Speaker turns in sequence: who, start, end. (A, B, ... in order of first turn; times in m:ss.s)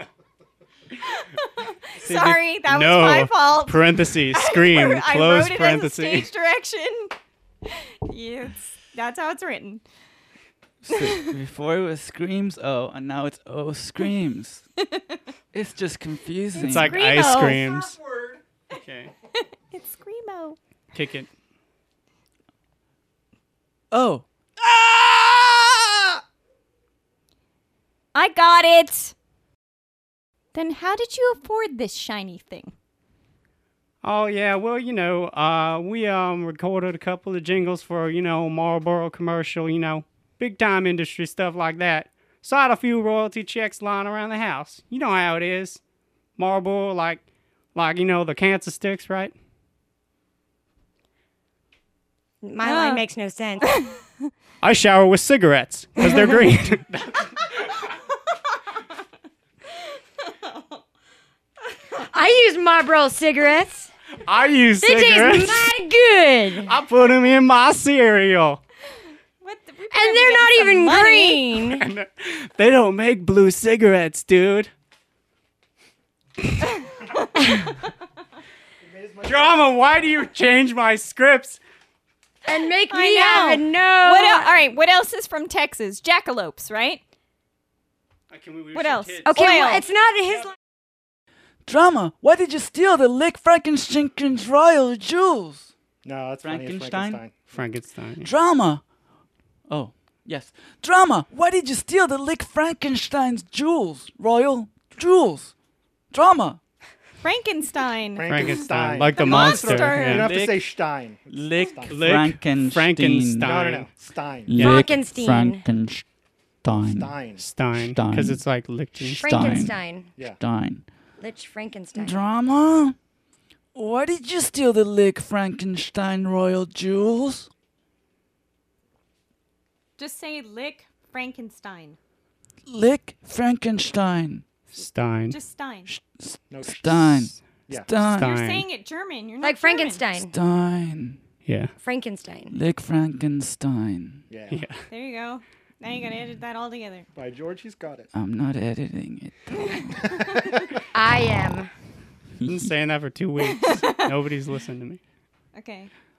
0:01.4-0:07.1 A
0:02.0-0:06.3 B
0:08.1-0:09.8 A
0:10.8-0:14.6 C
0:11.0-0:11.3 A
0:15.5-0:17.0 C
0:16.6-0:17.7 A
0:16.6-0:19.1 B
0:19.7-0:20.6 A
0:20.9-0:21.3 B
0:23.9-0:26.2 C
0:28.1-0:29.1 A
0:30.5-0:32.7 A
0:34.0-0:45.8 B
0:46.4-0:49.3 B
0:52.4-0:53.7 D
0:52.6-0:53.0 A
0:53.6-0:53.9 A
0:54.6-0:57.3 B
0:56.0-0:56.3 D
1:02.1-1:03.9 D
1:04.3-1:05.8 B
1:04.8-1:06.7 D
1:06.6-1:08.6 B
1:09.4-1:11.4 A
1:09.9-1:11.8 D
1:11.6-1:14.7 B
1:18.8-1:19.6 E
1:19.2-1:21.6 B
1:22.4-1:24.5 D
1:22.9-1:27.0 A
1:28.3-1:29.4 B
1:28.7-1:29.8 A
1:29.3-1:30.5 D
1:31.6-1:35.7 C
1:36.0-1:37.4 E
1:36.4-1:37.2 C
1:37.5-1:38.3 B
1:38.2-1:38.8 C
1:39.7-1:45.5 C
1:46.1-1:46.6 C
1:47.2-1:48.5 A
1:48.2-1:52.1 E
1:48.2-1:50.3 B
1:49.2-1:50.2 A
1:50.2-1:50.6 C
1:51.3-1:53.6 C
1:51.8-1:53.9 B
1:53.4-1:54.7 E
1:54.5-1:56.0 C
1:54.6-1:55.6 D
1:56.6-1:57.1 C
1:56.7-1:57.4 E
1:57.4-1:59.3 B
1:57.8-1:58.4 C
1:59.0-2:00.8 C
1:59.2-2:00.1 D
2:01.2-2:02.2 D
2:01.9-2:03.0 C
2:03.7-2:07.5 C
2:10.0-2:12.0 A
2:12.6-2:14.4 C
2:14.7-2:15.4 B
2:15.3-2:15.9 A
2:15.9-2:18.3 C
2:16.5-2:18.0 E
2:18.0-2:18.7 B
2:18.2-2:20.1 A
2:19.4-2:20.3 D
2:20.2-2:21.2 C
2:21.4-2:21.7 B
2:21.8-2:22.6 D
2:22.5-2:24.2 C
2:24.3-2:24.6 E
2:24.5-2:24.8 B
2:24.9-2:27.0 A
2:27.2-2:28.1 E
2:28.1-2:29.8 C
2:30.9-2:31.7 D
2:32.4-2:32.7 C
2:32.4-2:35.0 B
2:33.4-2:34.0 A
2:35.5-2:35.9 A